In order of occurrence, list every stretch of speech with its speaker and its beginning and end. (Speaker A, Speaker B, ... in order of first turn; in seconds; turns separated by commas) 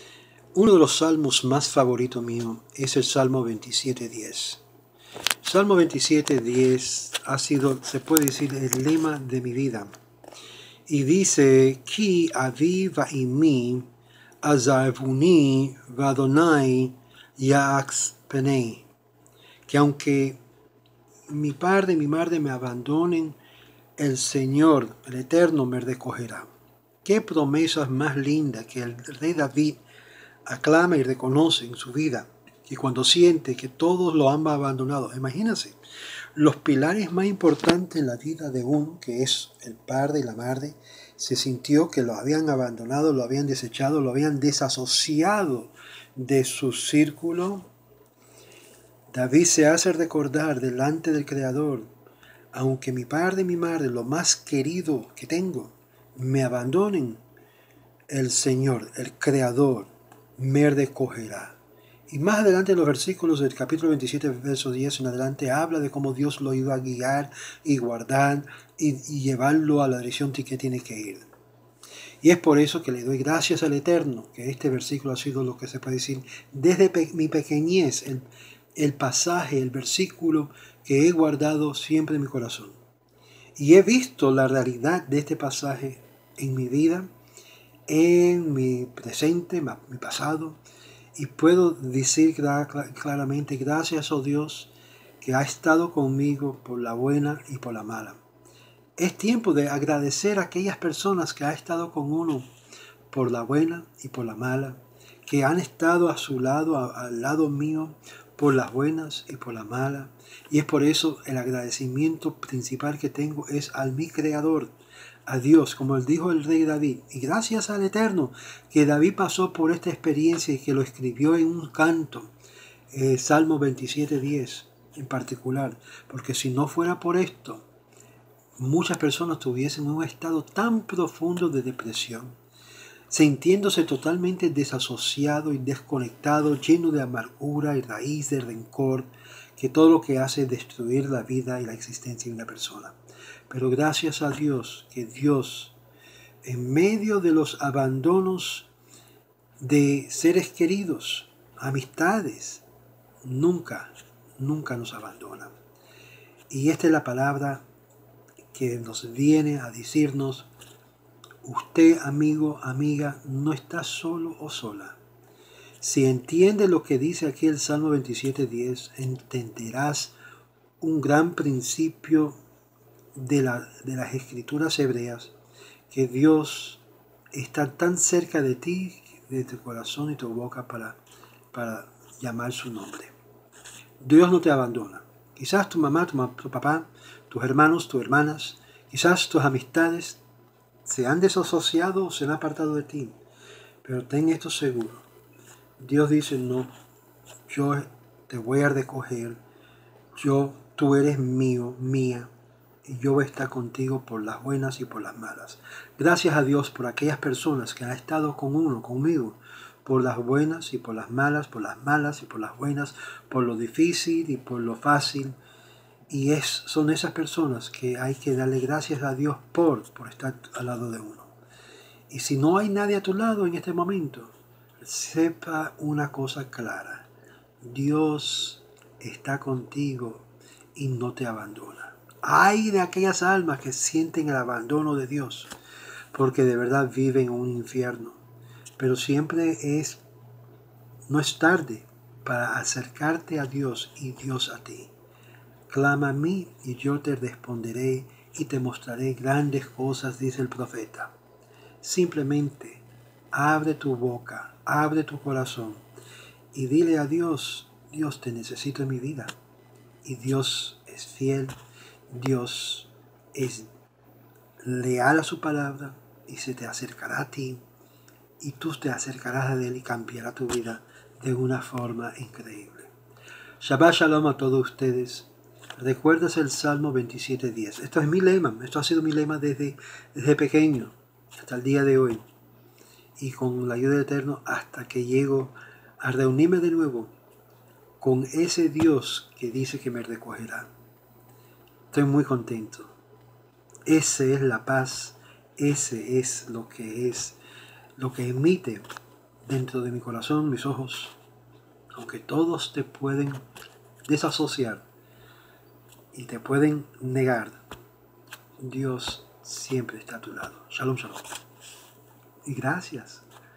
Speaker A: 0.5-4.6, Speaker A: 5.4-9.9, Speaker A: 10.9-13.9, Speaker A: 14.4-18.9, Speaker A: 19.7-20.4, Speaker A: 21.3-23.4, Speaker A: 24.0-26.5, Speaker A: 27.0-29.8, Speaker A: 30.5-35.8, Speaker A: 36.4-47.7, Speaker A: 49.1-51.9, Speaker A: 52.5-57.2, Speaker A: 58.1-61.6, Speaker A: 62.1-71.2, Speaker A: 72.2-82.8, Speaker A: 83.6-87.1, Speaker A: 87.9-90.6, Speaker A: 91.2-98.2, Speaker A: 99.0-102.5, Speaker A: 103.1-114.7, Speaker A: 115.3-122.3, Speaker A: 122.9-127.7, Speaker A: 128.6-132.3, Speaker A: 133.1-143.0, Speaker A: 143.5-145.8, Speaker A: 146.4-148.7, Speaker A: 149.6-152.6, Speaker A: 153.2-155.5, Speaker A: 156.5-157.6, Speaker A: 158.5-160.5, Speaker A: 161.4-165.0, Speaker A: 165.8-170.2, Speaker A: 170.8-172.4, Speaker A: 173.2-175.3, Speaker A: 175.9-176.8, Speaker A: 177.3-181.0, Speaker A: 181.5-183.1, Speaker A: 184.0-190.2, Speaker A: 190.9-193.2, Speaker A: 193.8-195.0, Speaker A: 195.8-196.7, Speaker A: 197.5-199.4, Speaker A: 200.2-202.3, Speaker A: 202.8-215.4, Speaker A: 216.1-221.3, Speaker A: 222.1-227.1, Speaker A: 227.6-235.5, Speaker A: 236.1-238.2, Speaker A: 238.8-240.0, Speaker A: 241.1-244.9, Speaker A: 245.7-251.1, Speaker A: 251.8-255.8, Speaker A: 256.5-259.3, Speaker A: 260.0-261.6, Speaker A: 262.1-263.7, Speaker A: 264.6-267.6, Speaker A: 268.4-272.9, Speaker A: 273.6-282.2, Speaker A: 283.2-287.1, Speaker A: 288.0-290.7, Speaker A: 291.9-292.9, Speaker A: 293.9-297.4, Speaker A: 298.0-298.8, Speaker A: 299.5-301.2, Speaker A: 301.9-303.4, Speaker A: 304.1-304.8, Speaker A: 306.1-307.6, Speaker A: 308.6-311.3, Speaker A: 312.4-313.2